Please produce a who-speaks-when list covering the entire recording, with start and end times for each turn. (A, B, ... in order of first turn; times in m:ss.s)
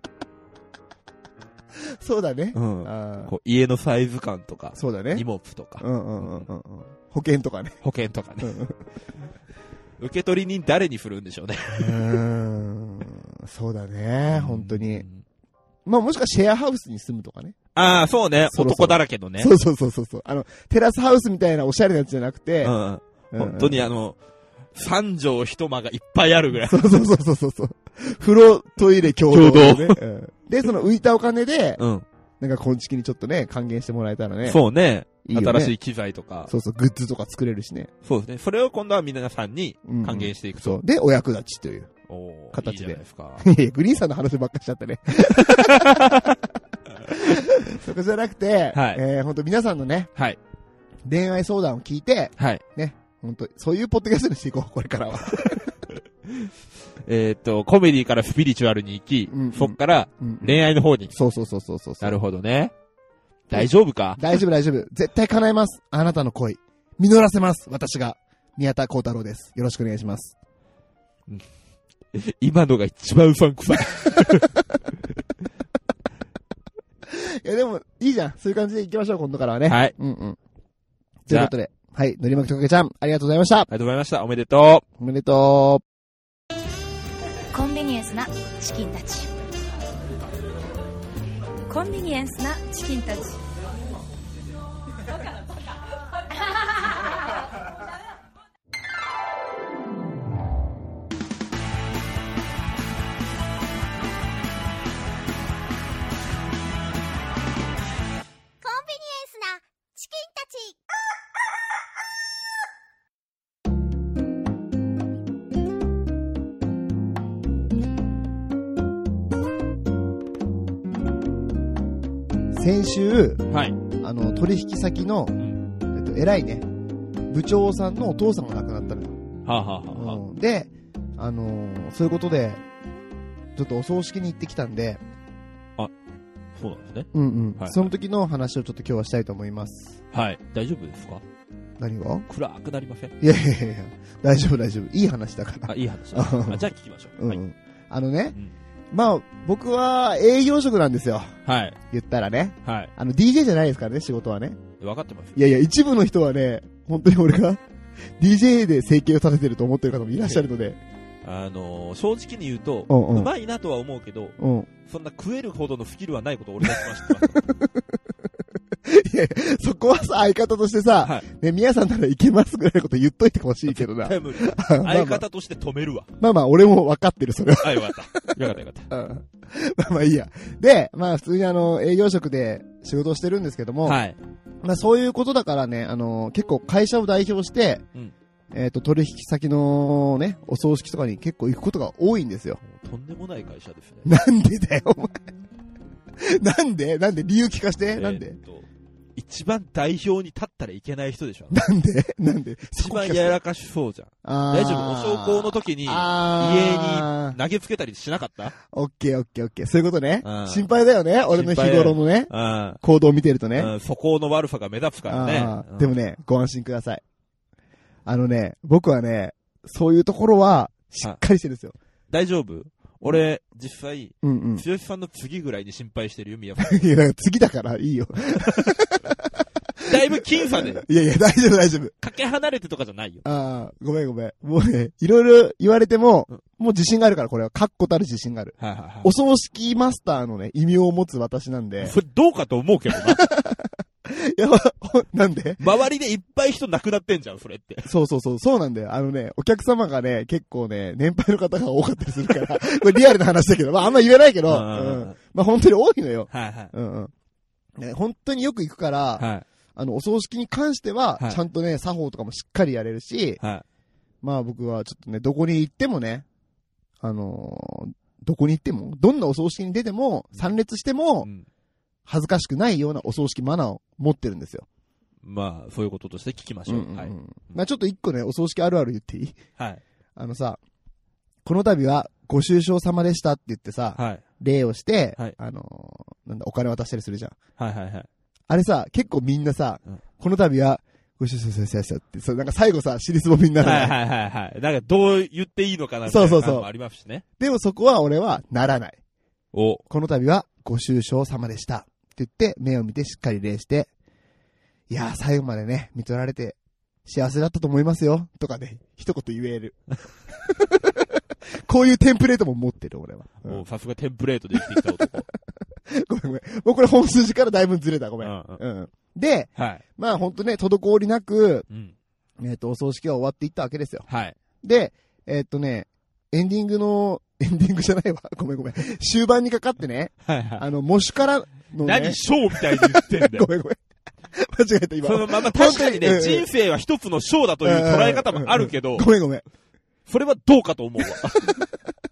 0:02.0-0:03.3 A
0:02.5-0:06.5 B
0:04.8-0:05.2 A
0:05.8-0:07.8 A
0:07.8-0:08.6 B
0:08.4-0:08.8 A
0:10.0-0:12.1 B
0:11.8-0:15.0 A
0:14.3-0:15.2 B
0:15.9-0:17.6 A
0:17.8-0:19.5 B
0:18.5-0:22.8 A
0:22.6-0:24.2 B
0:23.3-0:23.9 A
0:24.8-0:26.9 B
0:26.6-0:31.8 A
0:29.3-0:30.0 B
0:31.8-0:32.0 B
0:32.4-0:34.6 A
0:34.4-0:36.5 B
0:35.2-0:35.7 A
0:36.5-0:37.9 A
0:38.0-0:40.8 B
0:39.9-0:41.9 A
0:42.1-0:43.5 B
0:42.5-0:46.4 A
0:45.2-0:46.4 B
0:47.1-0:50.1 A
0:47.1-0:47.4 B
0:48.7-0:49.0 B
0:51.1-0:55.7 A
0:52.4-0:52.6 B
0:57.0-1:01.1 B
0:59.3-1:02.2 A
1:02.0-1:02.7 B
1:03.5-1:04.2 B
1:03.5-1:10.3 A
1:12.1-1:14.6 B
1:14.2-1:14.4 A
1:17.1-1:20.4 A
1:19.7-1:20.0 B
1:21.2-1:23.7 A
1:23.7-1:24.8 B
1:25.0-1:25.8 A
1:27.5-1:29.3 C
1:31.7-1:33.4 C
1:48.6-1:50.8 D
2:02.5-2:05.4 A
2:03.5-2:03.8 B
2:05.4-2:05.6 B
2:05.9-2:06.7 A
2:07.3-2:09.2 A
2:09.4-2:10.2 B
2:09.9-2:12.6 A
2:13.6-2:15.0 A
2:16.6-2:17.9 B
2:17.1-2:20.0 A
2:20.1-2:21.2 B
2:21.8-2:22.2 A
2:22.3-2:23.1 B
2:23.2-2:26.7 A
2:25.6-2:27.4 B
2:27.2-2:28.4 A
2:28.9-2:31.4 A
2:31.4-2:31.8 B
2:31.9-2:34.6 A
2:32.6-2:32.9 B
2:34.8-2:35.4 B
2:35.4-2:37.6 A
2:38.2-2:40.8 A
2:41.2-2:47.5 B
2:42.9-2:43.3 A
2:44.4-2:44.7 A
2:46.6-2:48.0 A
2:48.8-2:55.2 A
2:53.7-2:56.1 B
2:56.2-3:04.0 A
2:57.6-2:58.9 B
3:03.8-3:04.2 B
3:04.6-3:07.8 A
3:08.5-3:12.6 A
3:12.6-3:14.1 B
3:14.0-3:15.2 A
3:16.2-3:18.4 A
3:18.0-3:21.6 B
3:21.5-3:23.4 A
3:22.8-3:28.5 B
3:24.2-3:27.4 A
3:28.6-3:33.7 A
3:30.2-3:30.7 B
3:31.3-3:32.8 B
3:33.6-3:35.9 B
3:35.1-3:37.0 A
3:38.1-3:41.8 A
3:42.1-3:46.8 B
3:44.2-3:44.6 A
3:46.6-3:51.9 A
3:49.8-3:50.8 B
3:52.0-3:53.2 B
3:53.2-4:02.0 A
3:58.6-3:59.1 B
4:01.8-4:03.2 B
4:02.9-4:05.6 A
4:05.6-4:07.9 B
4:07.8-4:17.1 A
4:14.5-4:15.2 B
4:16.3-4:16.7 B
4:17.8-4:23.4 A
4:19.2-4:19.5 B
4:24.2-4:26.2 A
4:27.0-4:31.3 A
4:32.1-4:34.6 A
4:35.2-4:37.6 B
4:36.7-4:39.4 A
4:40.2-4:40.6 A
4:41.4-4:47.4 A
4:44.0-4:44.2 B
4:47.6-4:48.1 B
4:48.5-4:54.0 A
4:53.6-4:57.2 B
4:56.1-4:56.7 A
4:57.4-4:59.0 A
4:59.5-4:59.8 B
4:59.9-5:03.9 A
5:04.9-5:13.6 A
5:13.4-5:15.3 B
5:14.6-5:14.9 A
5:15.9-5:21.6 A
5:18.2-5:18.6 B
5:19.6-5:19.8 B
5:22.4-5:24.1 A
5:24.1-5:24.4 B
5:24.6-5:33.8 A
5:30.2-5:30.6 B
5:31.8-5:33.5 B
5:34.3-5:36.5 A
5:35.0-5:39.1 B
5:37.6-5:39.4 A
5:40.1-5:41.6 B
5:41.1-5:41.6 A